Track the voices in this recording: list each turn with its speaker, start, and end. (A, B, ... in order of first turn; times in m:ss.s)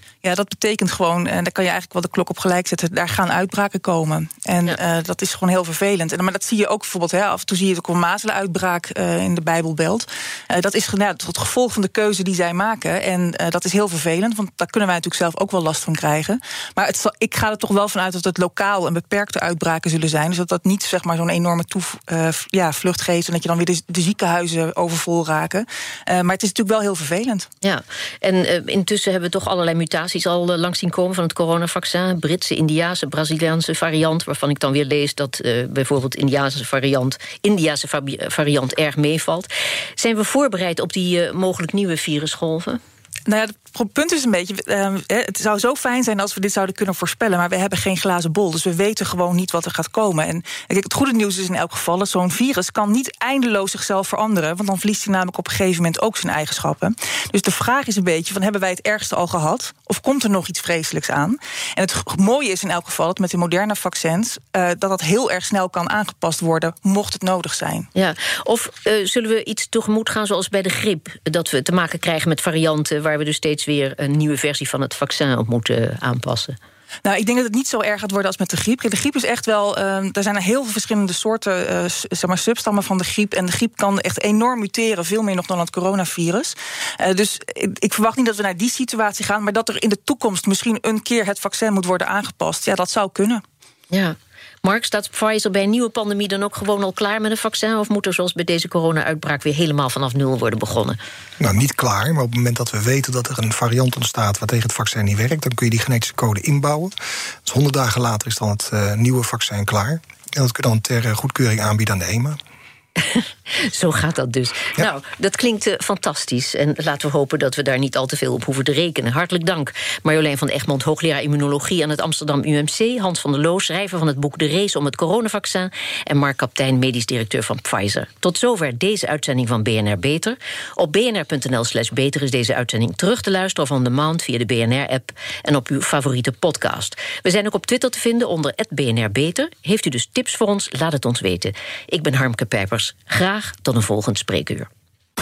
0:00.2-0:27.5 A
0:27.6-0:42.8 B
0:43.2-1:07.9 A
1:07.9-1:16.6 B
1:17.0-1:33.4 A
1:33.9-1:41.0 B
1:41.4-1:46.9 C
1:47.4-1:52.4 C
1:53.0-2:24.7 B